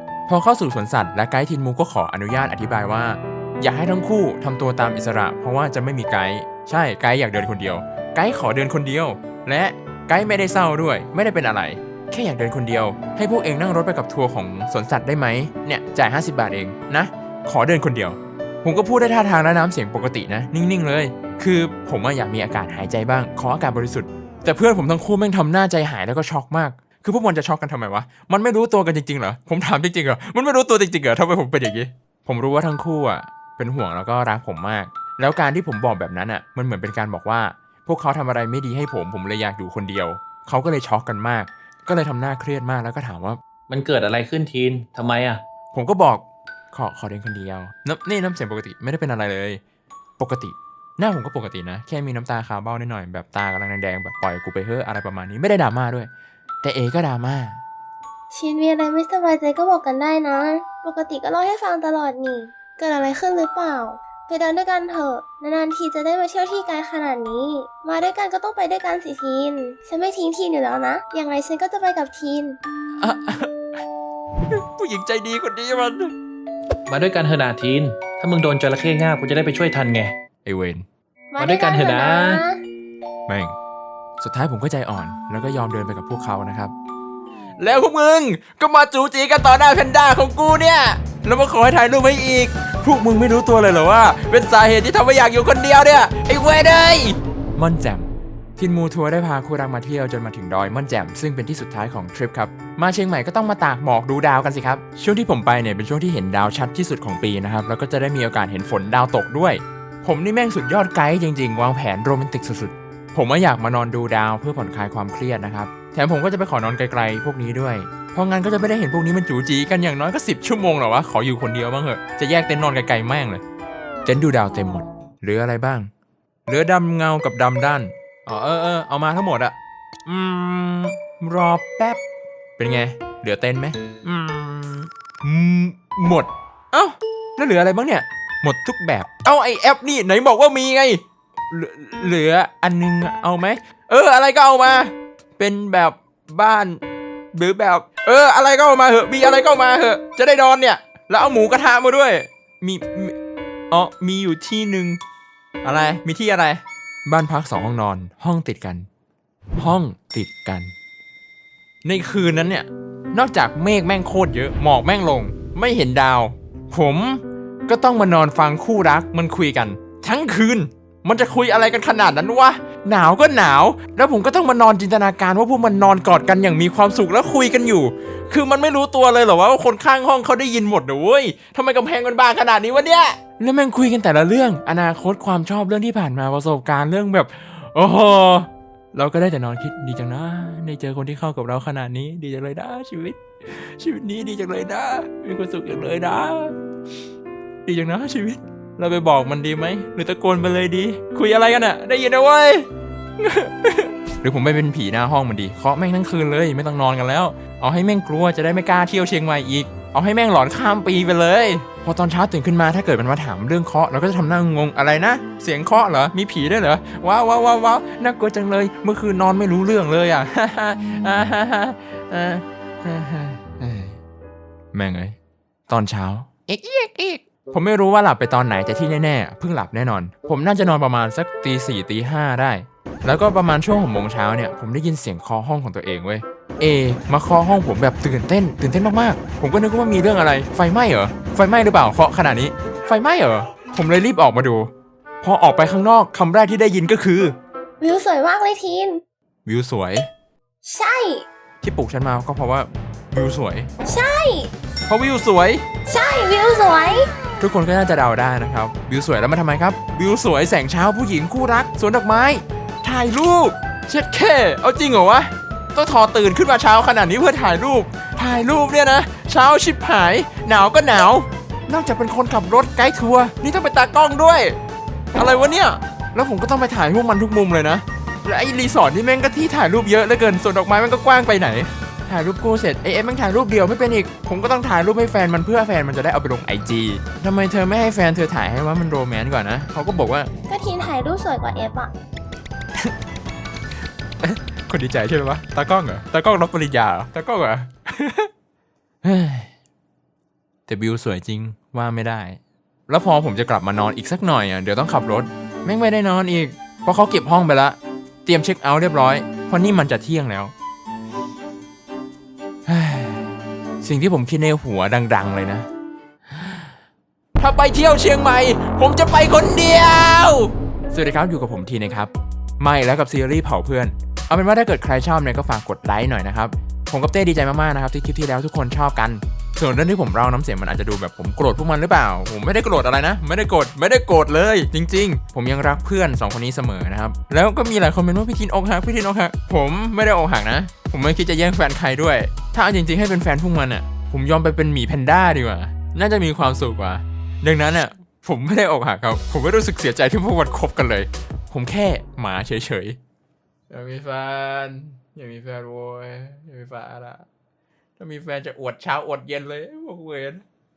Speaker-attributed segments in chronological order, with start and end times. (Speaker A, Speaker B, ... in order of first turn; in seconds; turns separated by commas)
Speaker A: 0.3-43.4, Speaker B: 43.7-45.4, Speaker A: 45.7-49.6, Speaker A: 50.2-56.1, Speaker A: 56.6-57.6, Speaker C: 58.3-72.6, Speaker A: 73.0-73.5, Speaker A: 74.5-76.1, Speaker B: 76.9-80.1, Speaker A: 80.4-80.8, Speaker C: 81.3-82.6, Speaker B: 81.4-82.4, Speaker A: 83.3-83.5, Speaker A: 84.2-86.7, Speaker A: 87.6-123.4, Speaker A: 124.0-125.9, Speaker A: 126.5-129.5, Speaker A: 130.1-132.0, Speaker A: 132.6-146.8, Speaker A: 147.3-153.1, Speaker A: 153.7-155.0, Speaker A: 155.6-158.9, Speaker A: 159.6-160.7, Speaker A: 161.8-196.5, Speaker A: 197.6-202.7, Speaker A: 203.2-224.0, Speaker A: 224.7-225.1, Speaker A: 225.7-244.7, Speaker A: 245.2-247.3, Speaker C: 247.8-249.0, Speaker A: 249.4-250.1, Speaker C: 250.6-251.2, Speaker A: 251.6-253.7, Speaker C: 253.8-254.5, Speaker A: 254.9-255.6, Speaker C: 255.9-257.1, Speaker A: 257.4-274.6, Speaker A: 275.1-290.3, Speaker C: 290.5-291.9, Speaker A: 294.2-298.3, Speaker A: 299.0-299.5, Speaker A: 300.7-310.5, Speaker A: 312.7-315.7, Speaker A: 316.3-316.7, Speaker A: 317.4-353.0, Speaker A: 353.7-357.2, Speaker A: 358.0-360.4